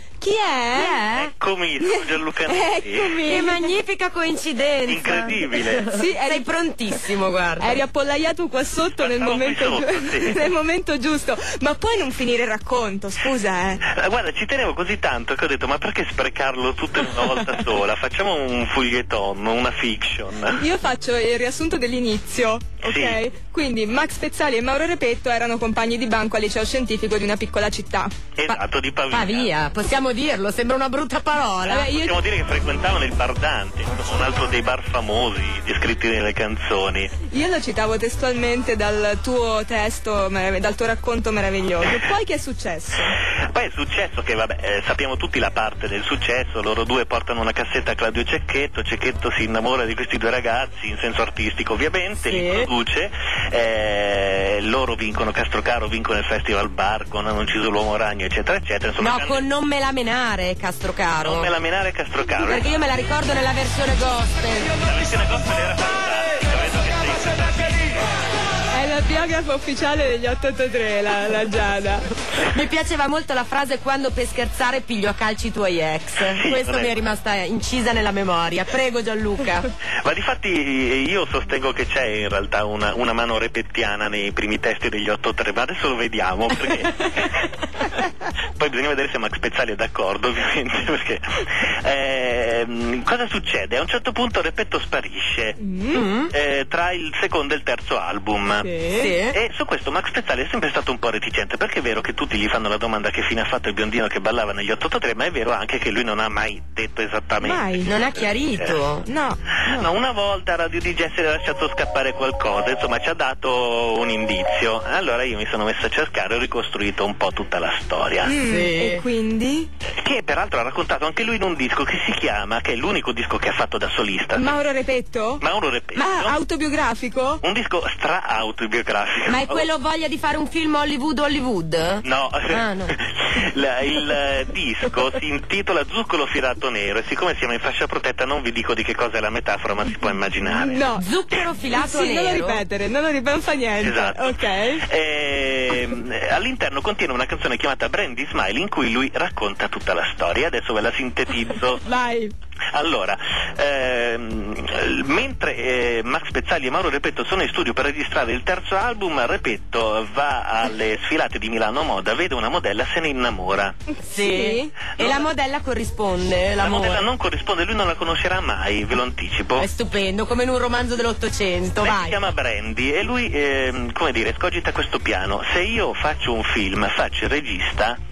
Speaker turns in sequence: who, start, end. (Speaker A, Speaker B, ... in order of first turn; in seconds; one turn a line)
Speaker A: 0.2-1.0
Speaker B: 0.7-1.3
Speaker C: 1.1-3.3
Speaker A: 1.8-3.7
Speaker B: 3.2-7.8
Speaker C: 4.9-5.9
Speaker A: 5.9-6.5
Speaker A: 7.6-13.8
Speaker C: 9.0-10.5
Speaker C: 13.8-20.6
Speaker A: 20.5-28.1
Speaker C: 22.8-23.2
Speaker C: 28.4-29.5
Speaker B: 29.1-31.9
Speaker A: 31.7-32.2
Speaker C: 31.7-37.1
Speaker A: 37.3-43.2
Speaker C: 43.5-59.5
Speaker B: 52.2-52.7
Speaker B: 59.0-61.5
Speaker C: 61.2-62.7
Speaker B: 62.4-64.8
Speaker C: 64.8-68.0
Speaker A: 68.7-72.0
Speaker B: 72.5-79.7
Speaker C: 76.2-77.0
Speaker C: 80.0-87.5
Speaker C: 88.6-95.6
Speaker A: 95.6-96.0
Speaker B: 95.9-96.3
Speaker C: 96.3-108.8
Speaker A: 98.6-99.1
Speaker B: 98.9-99.4
Speaker A: 107.4-107.9
Speaker B: 107.8-109.0
Speaker A: 109.0-109.8
Speaker C: 109.6-118.3
Speaker A: 118.2-119.7
Speaker B: 118.4-119.0
Speaker C: 120.0-124.6
Speaker A: 124.3-125.4
Speaker C: 125.4-126.4
Speaker A: 126.0-127.4
Speaker C: 127.4-129.7
Speaker B: 129.3-132.9
Speaker C: 132.0-140.8
Speaker A: 140.6-141.1
Speaker B: 140.9-142.6
Speaker A: 141.7-144.8
Speaker C: 143.8-151.8
Speaker A: 151.8-152.3
Speaker C: 152.7-163.8
Speaker A: 164.1-164.7
Speaker B: 164.1-167.1
Speaker C: 165.0-165.3
Speaker C: 166.6-169.7
Speaker B: 169.6-172.2
Speaker C: 171.8-178.0